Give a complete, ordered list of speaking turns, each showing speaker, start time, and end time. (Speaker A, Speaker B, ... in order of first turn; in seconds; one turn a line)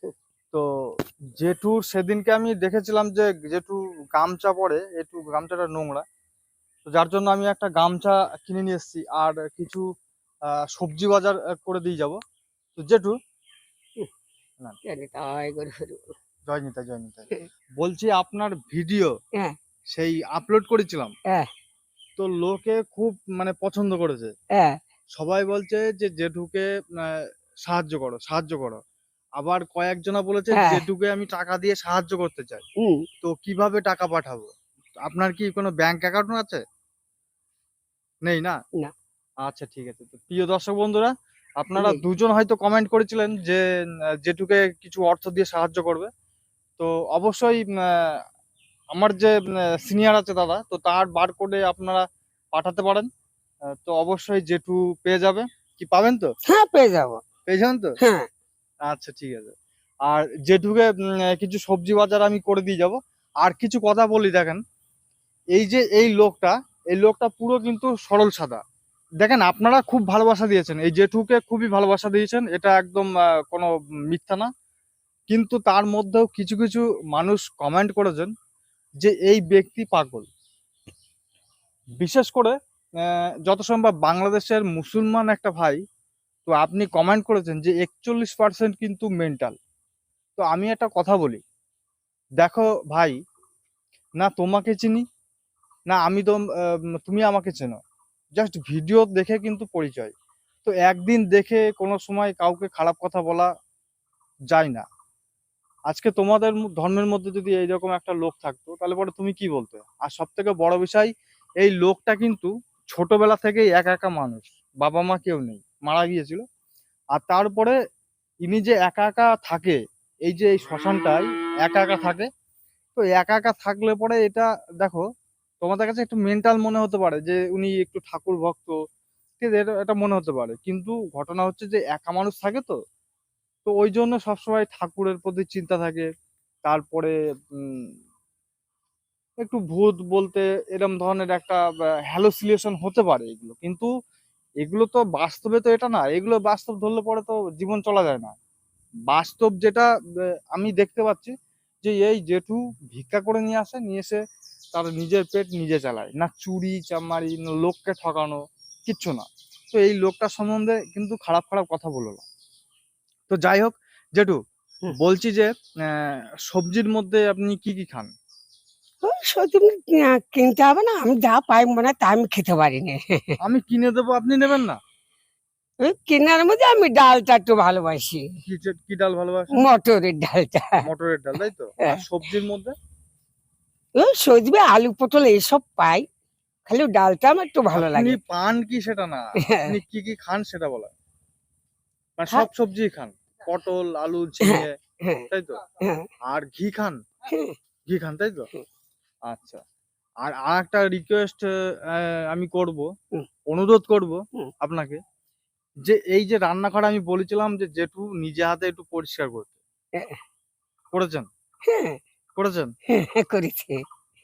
Speaker A: 1.3-6.0
Speaker A: 6.9-9.8
Speaker A: 10.5-12.2
Speaker A: 12.8-13.2
Speaker B: 14.8-16.1
Speaker A: 16.5-17.3
Speaker A: 17.8-19.1
Speaker A: 19.9-21.1
Speaker A: 22.2-24.3
Speaker A: 25.2-28.8
Speaker A: 29.4-32.6
Speaker B: 30.5-30.8
Speaker A: 33.2-34.5
Speaker A: 35.0-36.6
Speaker A: 38.2-38.5
Speaker A: 39.5-43.6
Speaker A: 44.2-46.1
Speaker A: 46.8-48.2
Speaker A: 48.9-53.1
Speaker A: 53.9-56.3
Speaker B: 56.5-57.2
Speaker A: 57.5-57.9
Speaker B: 58.0-58.2
Speaker A: 58.9-59.5
Speaker A: 60.0-64.6
Speaker A: 65.5-68.6
Speaker A: 69.2-74.5
Speaker A: 75.3-78.3
Speaker A: 79.0-80.3
Speaker A: 82.0-82.5
Speaker A: 83.1-85.8
Speaker A: 86.5-89.5
Speaker A: 90.4-91.4
Speaker A: 92.4-93.2
Speaker A: 94.2-95.0
Speaker A: 95.9-97.8
Speaker A: 98.4-100.1
Speaker A: 100.6-103.5
Speaker A: 104.5-104.8
Speaker A: 105.9-116.4
Speaker A: 117.1-117.7
Speaker A: 118.4-122.3
Speaker A: 123.0-125.0
Speaker A: 125.6-128.8
Speaker A: 129.4-132.8
Speaker A: 133.7-136.1
Speaker A: 136.6-137.9
Speaker A: 139.4-143.9
Speaker A: 144.6-148.3
Speaker A: 149.1-149.9
Speaker A: 150.5-154.2
Speaker A: 154.7-162.2
Speaker A: 163.3-164.4
Speaker A: 164.9-168.1
Speaker B: 169.0-173.4
Speaker A: 173.4-174.8
Speaker B: 175.8-178.2
Speaker A: 178.4-179.7
Speaker B: 179.6-180.8
Speaker A: 180.8-182.7
Speaker B: 184.0-186.0
Speaker B: 186.7-188.2
Speaker A: 187.7-190.9
Speaker B: 189.4-189.7
Speaker A: 192.2-194.7
Speaker B: 194.4-195.3
Speaker A: 195.3-195.6
Speaker B: 195.8-196.1
Speaker A: 196.3-197.0
Speaker B: 197.3-197.6
Speaker A: 197.9-198.5
Speaker A: 199.3-199.6
Speaker A: 200.2-202.9
Speaker A: 203.5-205.0
Speaker A: 205.8-209.6
Speaker A: 210.9-211.3
Speaker B: 211.7-212.0
Speaker A: 212.4-212.7
Speaker B: 212.9-213.8